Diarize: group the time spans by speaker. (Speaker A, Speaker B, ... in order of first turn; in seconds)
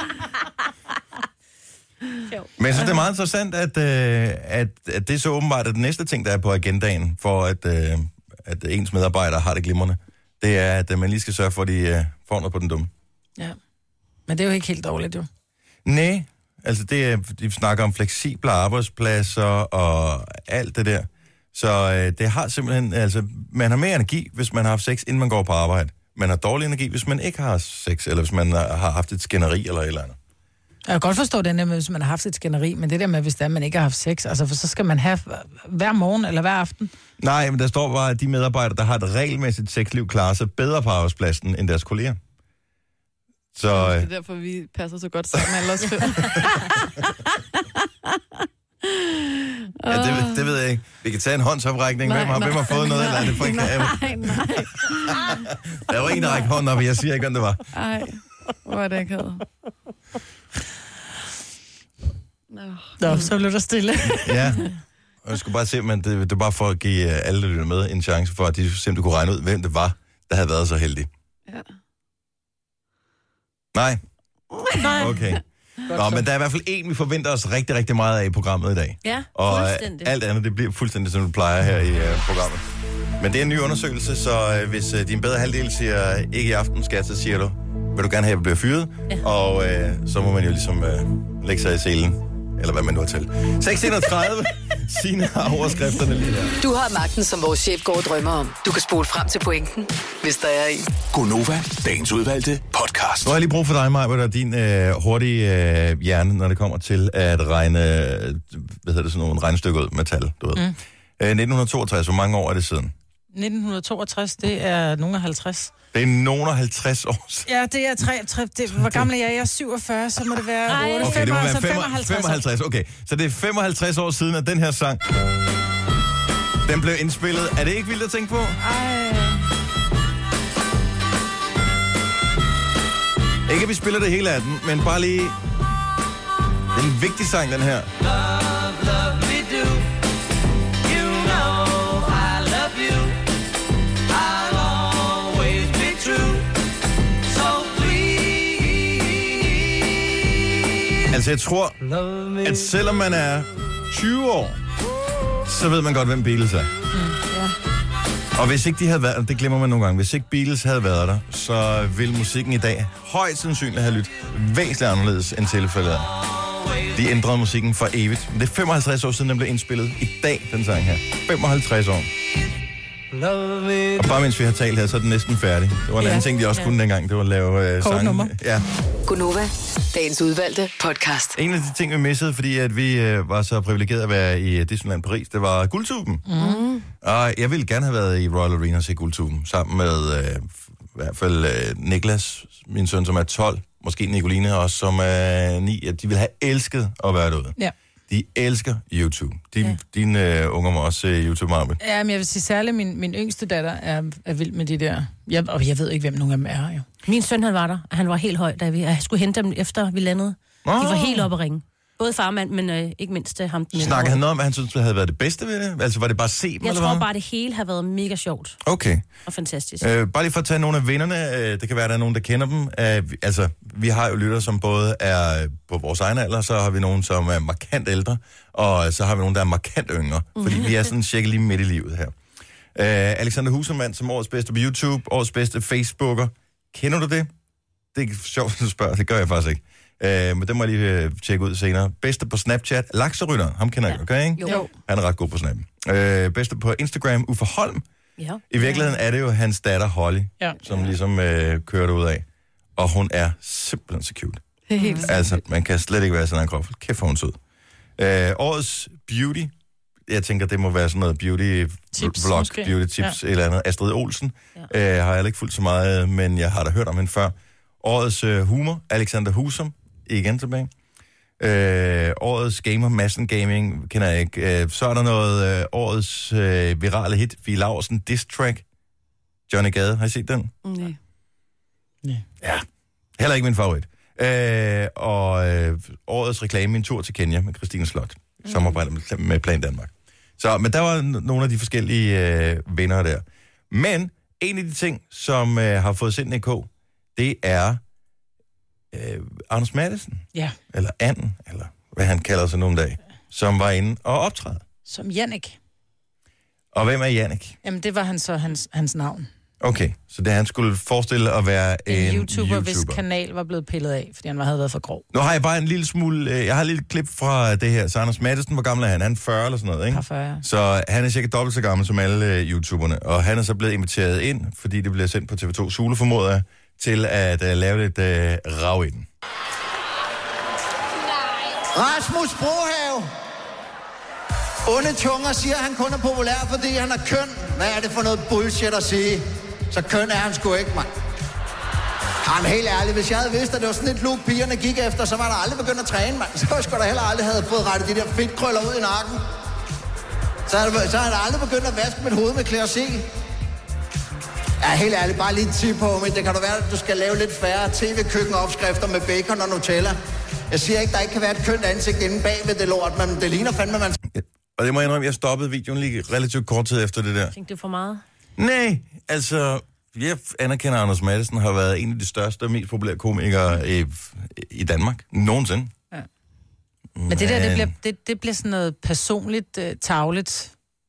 Speaker A: 2.6-12.9, 15.8-30.2, 37.2-42.2, 43.5-44.1, 46.2-46.6, 49.9-57.7, 64.1-71.1, 73.7-74.0, 74.8-82.6, 83.2-96.6, 103.2-112.9, 115.9-117.5, 118.7-119.1, 121.0-125.0, 126.6-128.6, 133.4-135.4, 136.7-137.9, 151.1-151.8, 152.4-154.6, 155.4-156.7, 158.3-166.2, 166.8-172.1, 173.9-178.6, 181.3-186.2, 187.0-197.6, 198.1-201.8, 210.6-211.3, 213.7-217.1, 218.6-219.0, 219.8-232.1, 232.7-237.3, 237.9-247.8, 248.5-252.2, 252.8-254.4, 255.0-257.4, 258.0-259.5, 260.1-270.7, 271.4-278.6, 279.5-280.5, 283.2-297.8, 298.9-304.6, 306.7-307.6, 309.6-313.0, 315.1-329.1, 364.1-367.3, 368.4-375.7, 376.9-377.7
Speaker B: 14.3-15.3, 30.9-36.9, 63.0-64.7, 74.8-75.1, 113.3-115.7, 117.5-122.4, 177.8-178.3, 186.3-186.6, 201.8-206.8, 254.8-255.1, 261.9-263.1, 304.9-305.6, 307.6-309.3, 311.9-315.0, 319.9-320.4, 377.1-380.5
Speaker C: 43.7-47.1, 47.6-50.5, 52.0-55.4, 56.1-56.4, 57.7-59.5, 62.5-63.2, 128.7-129.3, 186.4-186.9, 230.4-230.7, 254.7-255.3, 280.6-280.9
Speaker D: 79.0-80.1, 120.7-121.3, 139.2-139.7, 140.9-141.8, 142.3-143.1, 145.1-146.3, 147.7-148.0, 207.1-214.2, 216.6-218.6, 219.3-219.9, 367.3-368.0
Speaker E: 96.6-100.9, 179.1-181.4
Speaker F: 101.1-103.4, 141.1-141.4, 151.9-152.5, 173.1-174.0
Speaker G: 331.7-333.1, 334.6-340.9, 342.2-349.2, 350.5-353.1, 354.6-360.0, 360.5-364.0